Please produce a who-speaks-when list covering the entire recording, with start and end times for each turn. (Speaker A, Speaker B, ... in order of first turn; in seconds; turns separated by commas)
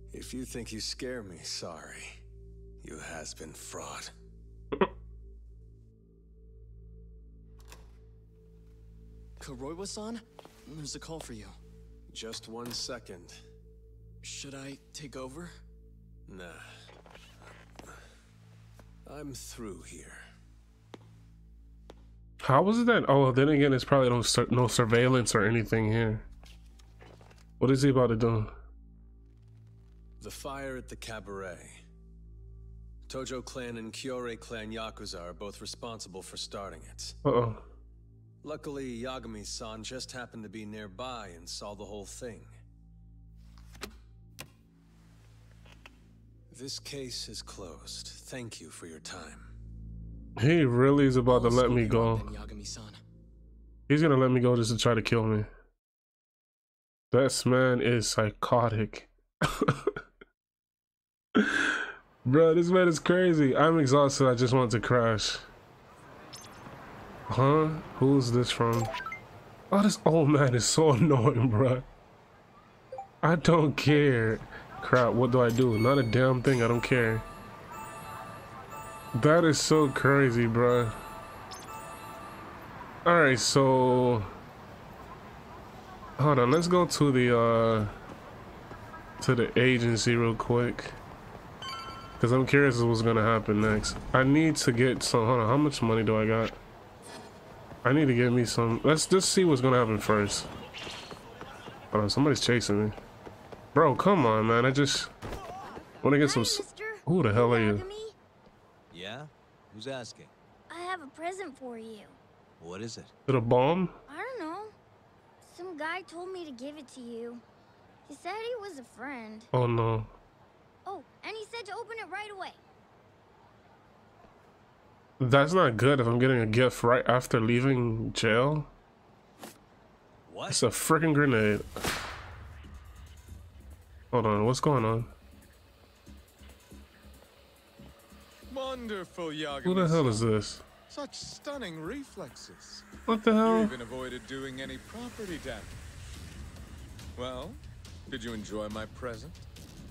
Speaker A: 0.1-2.2, Speaker A: 2.8-4.1, Speaker B: 9.7-11.6, Speaker A: 12.1-13.4, Speaker B: 14.3-15.5, Speaker A: 16.3-16.6, Speaker A: 19.1-20.2, Speaker C: 22.4-26.3, Speaker C: 27.6-28.5, Speaker A: 30.2-31.8, Speaker A: 33.1-37.2, Speaker C: 37.2-37.6, Speaker A: 38.4-42.5, Speaker A: 46.5-49.5, Speaker C: 50.4-52.3, Speaker B: 51.3-53.0, Speaker C: 53.9-55.5, Speaker C: 57.1-59.9, Speaker C: 61.4-65.4, Speaker C: 67.3-68.9, Speaker C: 69.7-71.8, Speaker C: 73.2-77.2, Speaker C: 79.1-81.0, Speaker C: 83.0-84.3, Speaker C: 86.2-87.9, Speaker C: 89.2-91.0, Speaker C: 92.2-96.5, Speaker C: 97.8-100.5, Speaker C: 101.9-103.0, Speaker C: 103.7-105.1, Speaker C: 106.0-107.8, Speaker D: 106.2-108.2, Speaker E: 108.9-110.3, Speaker D: 110.7-112.2, Speaker E: 112.6-113.1, Speaker C: 113.3-114.0, Speaker D: 114.1-114.7, Speaker D: 115.4-117.4, Speaker D: 118.1-119.5, Speaker C: 119.5-120.1, Speaker D: 120.8-122.6, Speaker C: 125.2-128.7, Speaker E: 130.3-130.6, Speaker C: 130.5-131.7, Speaker C: 134.1-135.1, Speaker F: 138.5-140.3, Speaker C: 139.7-140.6, Speaker F: 140.9-142.9, Speaker C: 143.1-143.8, Speaker F: 143.4-145.8, Speaker F: 147.2-149.4